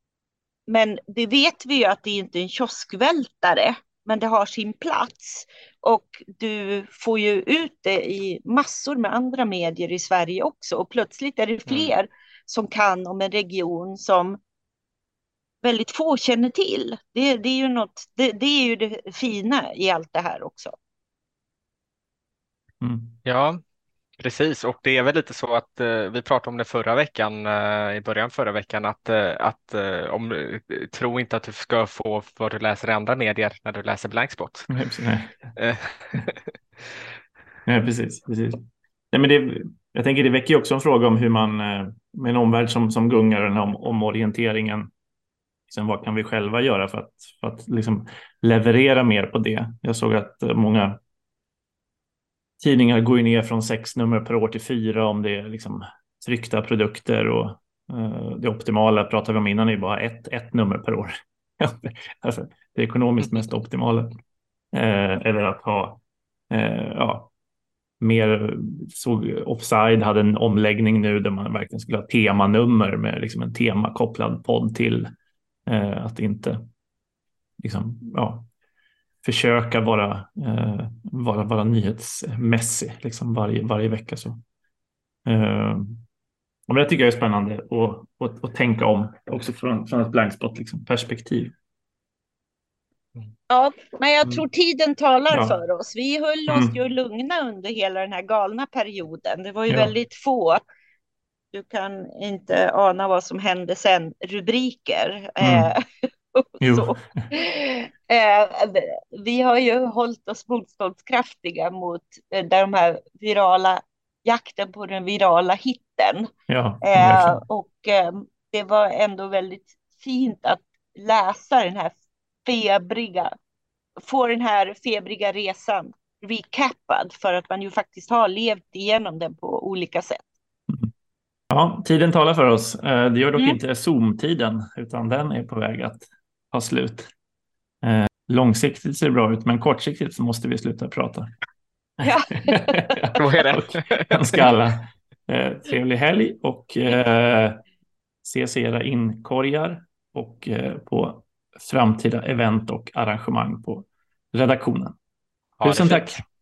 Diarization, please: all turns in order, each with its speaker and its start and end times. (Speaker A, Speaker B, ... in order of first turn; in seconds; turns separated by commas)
Speaker A: 0.7-14.4, Speaker B: 11.7-11.9, Speaker A: 15.6-20.7, Speaker C: 22.8-23.2, Speaker B: 23.2-23.6, Speaker B: 24.2-34.7, Speaker C: 34.7-35.5, Speaker B: 35.5-36.4, Speaker C: 37.6-44.9, Speaker C: 45.7-51.0, Speaker C: 52.6-64.1, Speaker C: 64.7-67.3, Speaker C: 68.0-75.1, Speaker C: 75.7-76.6, Speaker C: 77.6-78.5, Speaker C: 79.2-84.4, Speaker C: 85.2-86.0, Speaker C: 86.7-91.5, Speaker A: 93.5-100.6, Speaker C: 95.3-95.6, Speaker C: 96.5-96.8, Speaker A: 101.5-105.8, Speaker C: 105.4-105.7, Speaker A: 106.3-116.3, Speaker C: 106.6-107.3, Speaker C: 116.5-117.4, Speaker A: 116.8-123.3, Speaker A: 124.0-130.3, Speaker C: 131.5-137.1, Speaker C: 137.8-141.3, Speaker C: 142.0-147.6, Speaker A: 142.0-142.7, Speaker B: 143.2-144.4, Speaker C: 148.2-154.9, Speaker B: 155.6-156.2, Speaker C: 155.6-156.2